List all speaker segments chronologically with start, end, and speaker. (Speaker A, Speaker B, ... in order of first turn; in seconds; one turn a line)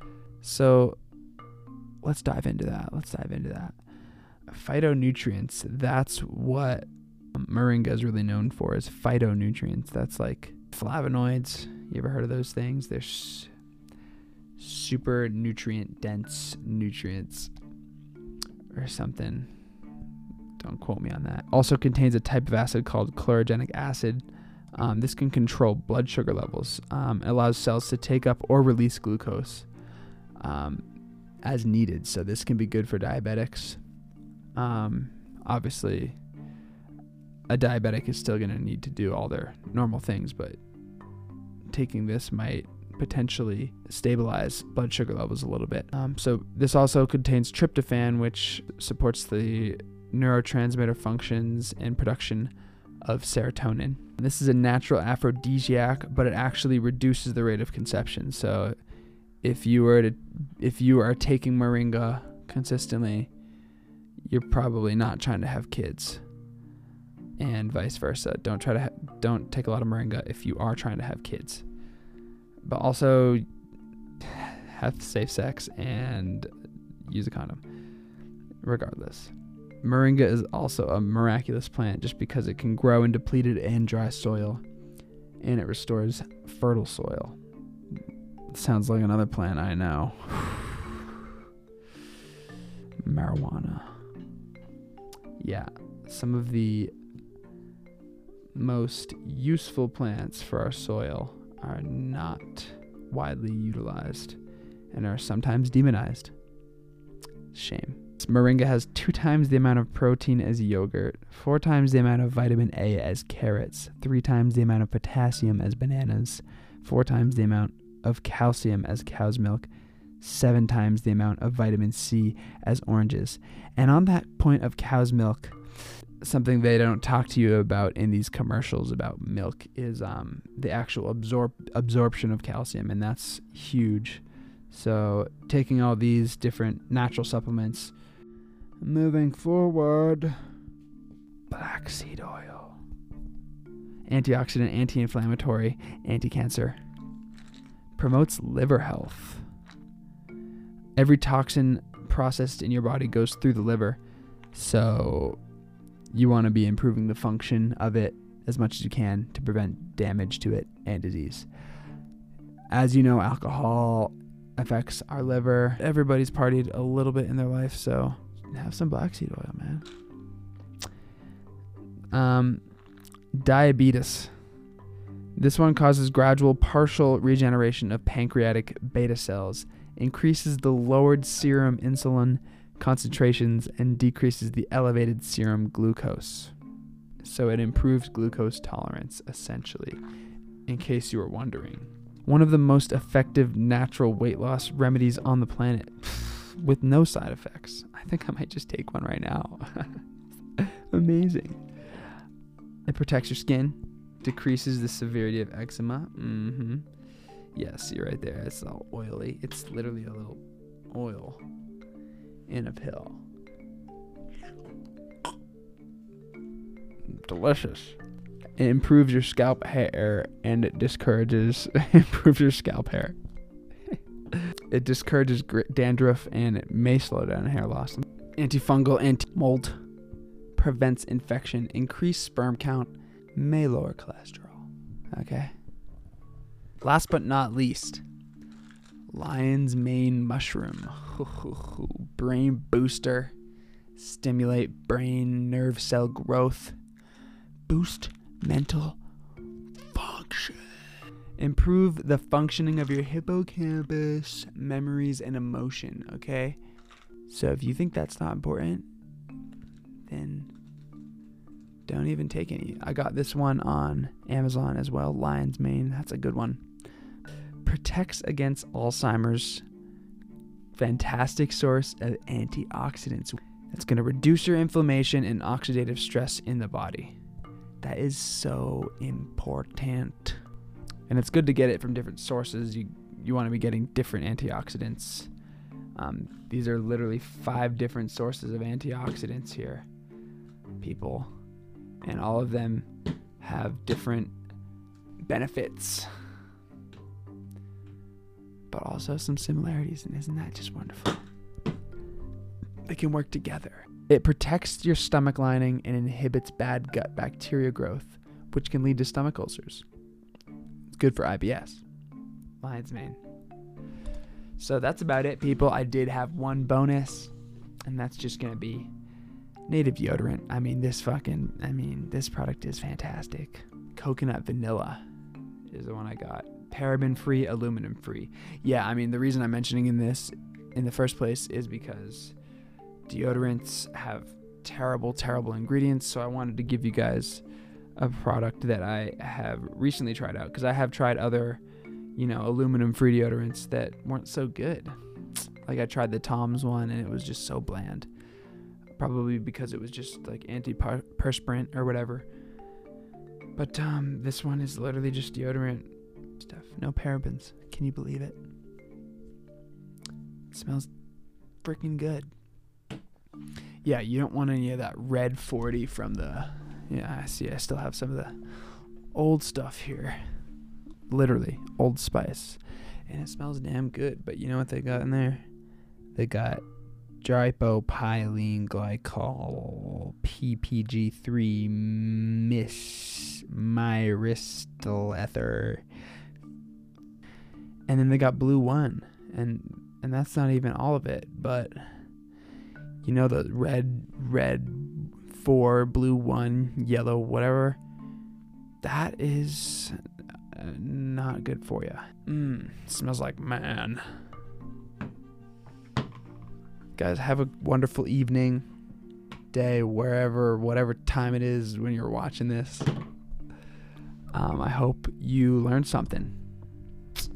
Speaker A: 0.4-1.0
Speaker A: 2.0-13.5
Speaker A: 14.6-17.5
Speaker A: 18.7-19.7
Speaker A: 20.6-29.8
Speaker A: 30.4-30.9
Speaker A: 31.4-33.9
Speaker A: 34.5-36.2
Speaker A: 37.5-40.6
Speaker A: 41.7-58.8
Speaker A: 59.4-63.3
Speaker A: 64.3-66.3
Speaker A: 67.4-71.7
Speaker A: 72.6-73.4
Speaker A: 74.2-76.5
Speaker A: 77.0-77.6
Speaker A: 78.6-84.6
Speaker A: 85.4-87.4
Speaker A: 87.9-90.9
Speaker A: 93.0-94.0
Speaker A: 95.4-96.9
Speaker A: 98.5-104.4
Speaker A: 104.9-106.3
Speaker A: 107.5-119.7
Speaker A: 120.2-138.0
Speaker A: 138.8-140.6
Speaker A: 141.5-142.8
Speaker A: 144.1-146.8
Speaker A: 147.9-149.5
Speaker A: 151.0-154.0
Speaker A: 154.5-155.4
Speaker A: 156.1-161.7
Speaker A: 162.7-169.9
Speaker A: 172.1-172.7
Speaker A: 173.3-174.6
Speaker A: 175.3-186.6
Speaker A: 187.2-190.0
Speaker A: 190.7-200.1
Speaker A: 200.6-202.1
Speaker A: 202.9-206.9
Speaker A: 207.5-211.4
Speaker A: 212.5-213.2
Speaker A: 217.1-218.0
Speaker A: 218.6-223.2
Speaker A: 224.7-229.9
Speaker A: 230.5-235.6
Speaker A: 236.8-238.0
Speaker A: 239.1-243.3
Speaker A: 243.9-246.8
Speaker A: 247.7-249.0
Speaker A: 249.9-250.8
Speaker A: 251.4-256.7
Speaker A: 257.3-258.9
Speaker A: 260.1-260.5
Speaker A: 261.9-266.6
Speaker A: 267.6-269.6
Speaker A: 270.7-277.2
Speaker A: 277.8-280.4
Speaker A: 281.1-285.3
Speaker A: 285.9-289.9
Speaker A: 290.8-291.3
Speaker A: 292.0-292.9
Speaker A: 293.4-294.4
Speaker A: 295.2-296.4
Speaker A: 298.7-301.3
Speaker A: 302.9-309.9
Speaker A: 310.9-311.9
Speaker A: 312.6-313.2
Speaker A: 314.6-317.3
Speaker A: 317.9-318.9
Speaker A: 319.7-325.0
Speaker A: 325.7-332.4
Speaker A: 333.1-337.4
Speaker A: 338.0-341.6
Speaker A: 342.1-348.1
Speaker A: 349.0-352.3
Speaker A: 353.6-358.4
Speaker A: 360.5-360.9
Speaker A: 361.6-362.3
Speaker A: 363.8-370.5
Speaker A: 371.1-375.4
Speaker A: 376.1-376.6
Speaker A: 377.2-385.9
Speaker A: 387.9-392.1
Speaker A: 393.0-397.8
Speaker A: 398.8-400.0
Speaker A: 400.5-404.3
Speaker A: 406.9-408.7
Speaker A: 409.5-412.9
Speaker A: 414.3-416.4